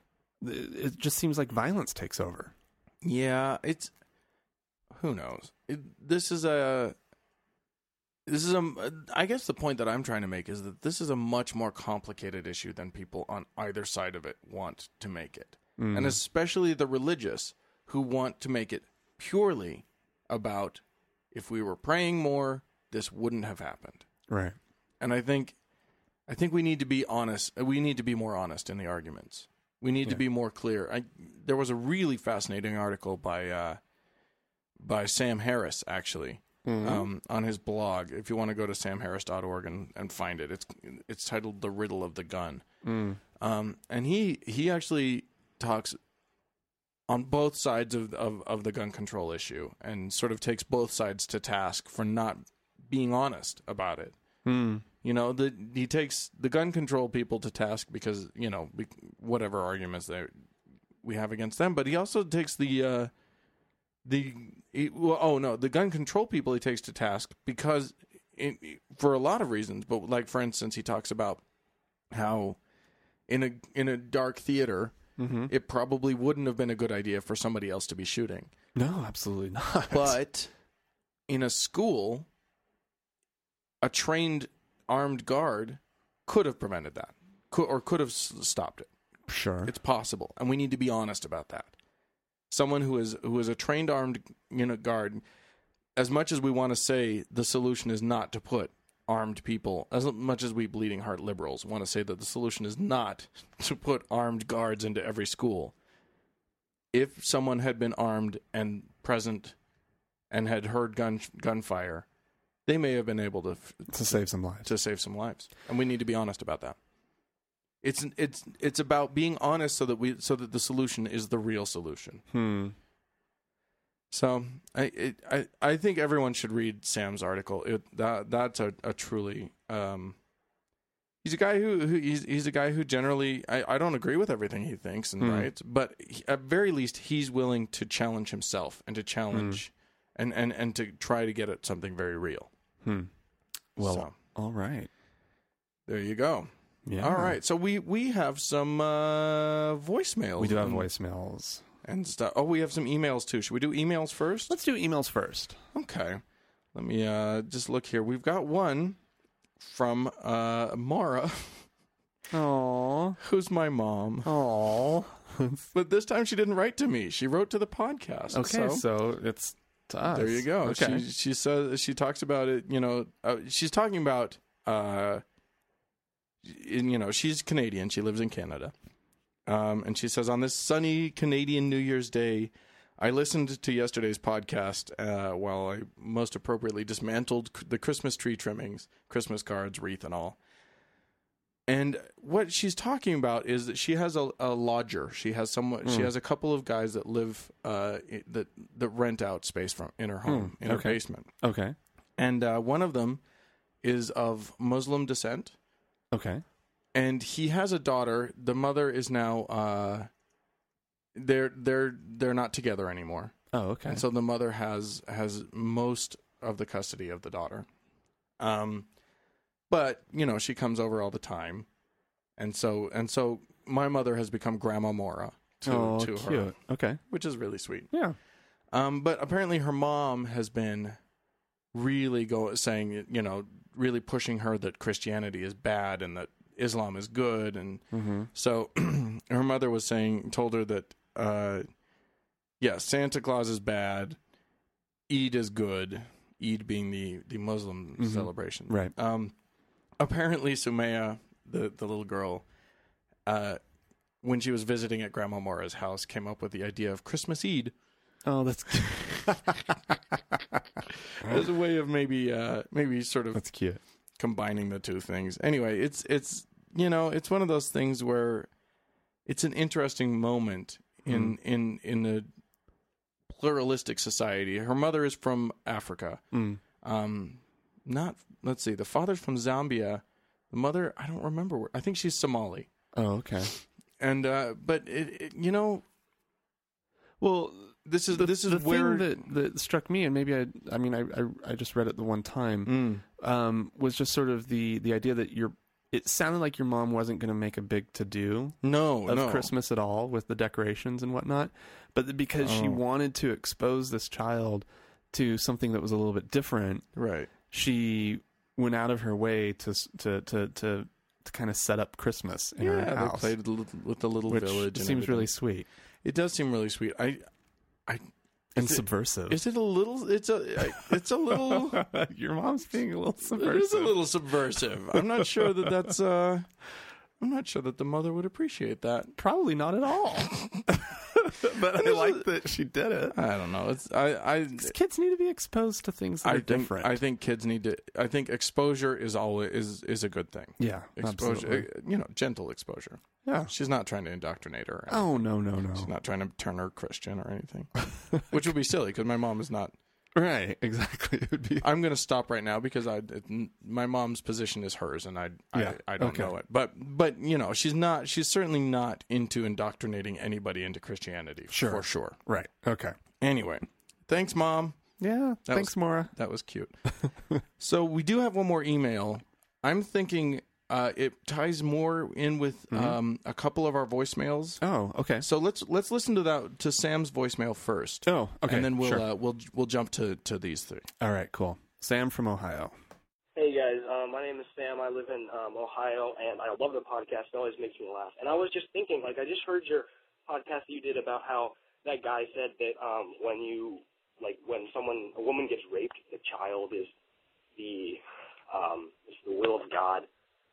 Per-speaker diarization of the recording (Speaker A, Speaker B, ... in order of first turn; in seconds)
Speaker A: 0.4-2.5, 15.8-16.2, 24.3-24.6, 36.6-37.1, 42.8-43.2, 54.5-54.9, 75.2-75.5, 78.8-80.2, 89.3-89.7, 113.9-114.7, 122.3-122.8, 135.2-135.5, 139.3-139.6, 142.8-143.1, 143.8-144.9, 146.9-147.4, 150.4-151.6, 154.5-155.6, 162.3-163.2, 164.2-165.7, 168.3-171.1, 195.8-196.1, 200.3-201.8, 206.1-206.4, 213.5-214.0, 225.7-227.0, 227.9-228.2, 237.9-238.3, 248.0-248.9, 258.2-260.6, 263.3-263.8, 271.1-271.4, 276.3-276.6, 282.9-283.5, 287.2-306.9, 307.5-313.3, 314.3-315.7, 318.6-319.4, 321.3-324.0, 324.9-325.8, 329.2-333.2, 334.6-337.0, 340.6-341.7, 343.2-343.5, 344.9-345.9, 350.1-351.7, 355.5-356.3, 361.5-363.0, 365.0-366.1, 366.9-367.4, 372.7-373.0, 374.6-375.3, 378.1-379.1, 381.0-382.7
Speaker B: 3.0-3.9, 4.9-7.0, 8.3-24.1, 25.0-25.6, 26.3-33.8, 34.8-42.6, 43.4-46.0, 47.1-54.2, 55.0-60.3, 61.0-63.1, 64.0-71.4, 72.1-72.6, 73.3-75.0, 75.5-78.5, 79.9-80.5, 81.3-82.3, 83.8-88.9, 89.7-91.7, 92.5-95.2, 96.0-105.7, 106.9-109.5, 110.3-112.1, 112.7-116.8, 117.8-122.2, 124.1-130.2, 131.2-142.5, 143.8-144.1, 145.9-150.9, 151.8-154.6, 155.7-156.2, 156.7-159.0, 159.6-161.7, 163.2-164.3, 165.7-168.8, 170.1-175.2, 176.4-178.7, 179.5-190.4, 191.7-201.3, 202.2-203.2, 203.8-205.6, 206.9-210.1, 211.2-213.4, 213.9-217.7, 218.4-218.9, 219.7-221.7, 222.4-226.6, 227.1-227.9, 228.7-231.0, 231.7-241.7, 242.6-244.2, 245.1-249.3, 250.0-252.4, 253.3-253.6, 254.2-257.7, 261.2-263.4, 264.2-268.5, 269.3-272.3, 273.3-276.2, 276.8-282.7, 284.0-285.8, 287.9-289.3, 292.7-293.0, 298.6-299.5, 302.4-302.8, 307.0-307.3, 312.6-315.3, 316.0-317.2, 317.9-321.9, 323.3-326.5, 327.2-329.1, 331.8-332.3, 333.1-334.7, 336.2-349.8, 351.6-362.2, 363.2-364.8, 365.5-366.8, 367.6-374.6, 375.2-380.9
Speaker C: 383.4-396.9, 397.6-400.1